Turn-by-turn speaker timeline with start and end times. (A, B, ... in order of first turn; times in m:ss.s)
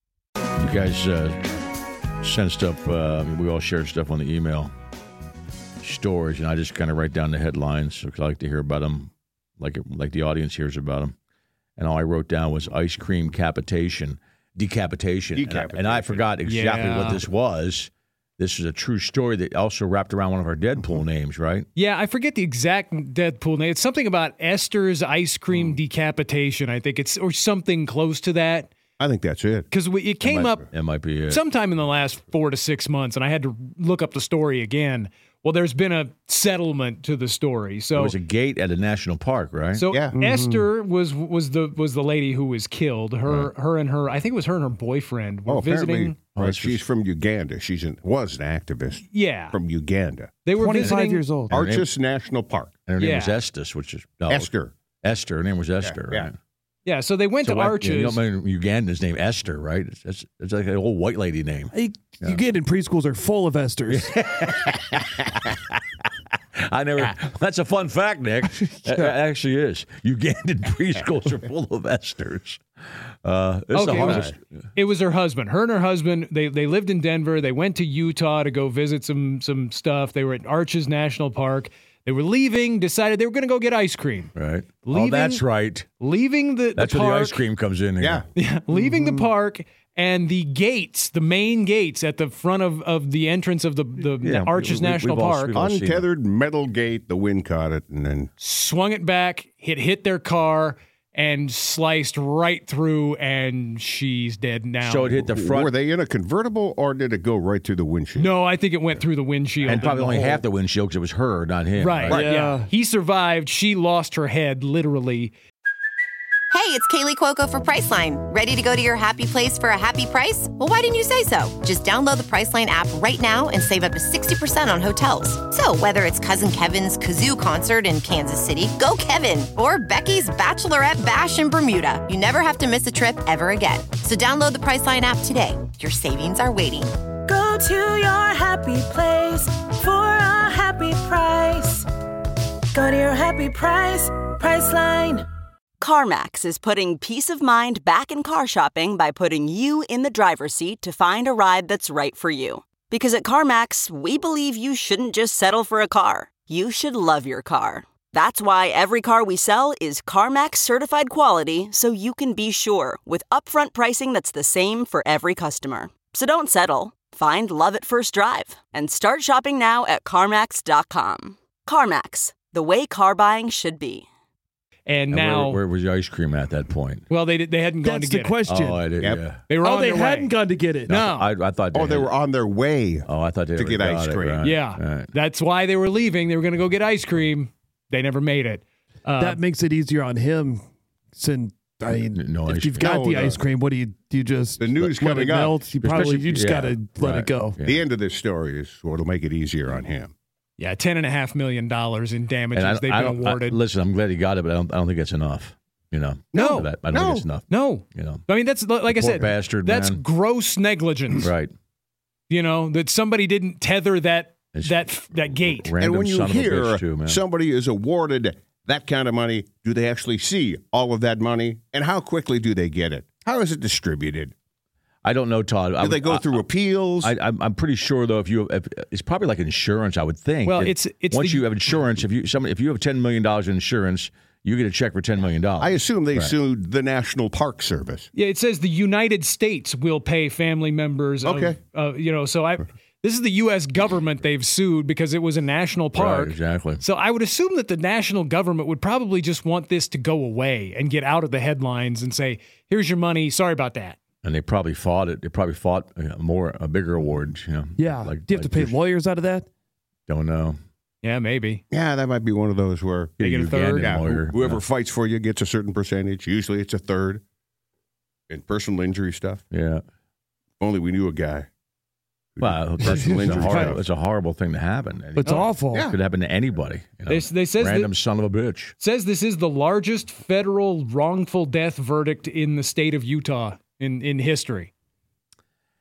0:00.6-0:01.5 A
0:02.2-0:04.7 A
0:05.8-0:11.1 A
0:11.8-0:21.7 A
0:15.4-0:17.0 B
0:16.4-0:17.2 C
0:21.8-0:28.7 C
0:29.0-0:29.7 B
0:29.7-0:30.6 C
0:30.2-0:31.4 A
0:31.3-0:38.2 C
0:38.0-0:39.9 A
0:39.7-0:46.2 C
0:39.9-0:40.2 B
0:40.2-0:40.6 D
0:45.5-0:50.3 B
0:46.3-0:46.8 A
0:49.1-0:49.6 C
0:50.4-0:51.2 C
0:50.5-0:51.5 D
0:51.5-0:52.8 B
0:51.5-0:51.9 A
0:52.8-0:54.5 A
0:53.0-0:53.4 C
0:54.3-0:54.7 B
0:55.0-0:56.4 A
0:55.8-0:56.3 B
0:56.8-0:58.2 C
0:57.4-1:02.4 A
1:01.7-1:04.1 D
1:03.8-1:12.6 A
1:13.2-1:14.4 A
1:13.7-1:25.4 C
1:14.0-1:14.3 B
1:24.3-1:25.9 A
1:26.0-1:27.4 C
1:26.8-1:28.2 A
1:28.0-1:28.2 B
1:28.3-1:35.5 C
1:34.2-1:36.0 A
1:35.5-1:38.3 B
1:38.4-1:45.1 C
1:44.8-1:45.7 A
1:45.2-1:48.3 B
1:48.1-1:50.3 C
1:49.7-1:52.3 A
1:51.8-1:55.3 C
1:52.1-1:52.7 D
1:56.5-2:16.9 E
2:17.3-2:21.3 F
2:22.8-2:25.1 F
2:25.8-2:54.0 G
2:54.9-2:55.6 C
2:55.1-2:57.0 A
2:57.1-2:58.4 C
2:57.8-2:58.9 D
2:58.5-2:59.5 A
2:59.0-2:59.3 B
2:59.5-3:00.3 C
2:59.6-3:00.9 D
3:00.9-3:02.1 A
3:00.9-3:01.3 C
3:01.7-3:04.4 B
3:03.0-3:05.1 A
3:04.4-3:09.4 C
3:09.2-3:10.6 D
3:11.1-3:17.6 D
3:12.0-3:13.1 A
3:12.8-3:13.4 B
3:14.6-3:15.6 B
3:15.7-3:17.8 A
3:17.6-3:20.1 B
3:20.6-3:23.6 C
3:22.5-3:28.2 A
3:26.3-3:27.3 B
3:26.3-3:26.8 C
3:27.5-3:31.3 C
3:28.9-3:30.0 A
3:31.2-3:31.5 A
3:32.3-3:35.7 C
3:34.5-3:37.2 A
3:35.8-3:44.3 B
3:45.0-3:46.4 A
3:45.8-3:47.1 B
3:47.0-3:56.3 A
3:50.4-3:51.6 C
3:55.6-3:58.1 B
3:58.1-4:14.0 C
4:01.2-4:01.6 B
4:05.9-4:06.8 A
4:14.2-4:18.8 A
4:17.8-4:19.5 D
4:20.1-4:20.6 A
4:21.0-4:21.6 C
4:21.7-4:23.2 B
4:23.2-4:24.6 A
4:23.2-4:24.0 C
4:23.8-4:27.2 B
4:28.3-4:29.4 B
4:29.5-4:29.8 A
4:30.6-4:31.5 B
4:32.3-4:33.8 B
4:32.4-4:38.7 A
4:32.8-4:33.8 D
4:35.2-4:35.9 D
4:35.7-4:36.0 B
4:37.1-4:37.9 C
4:38.8-4:44.7 C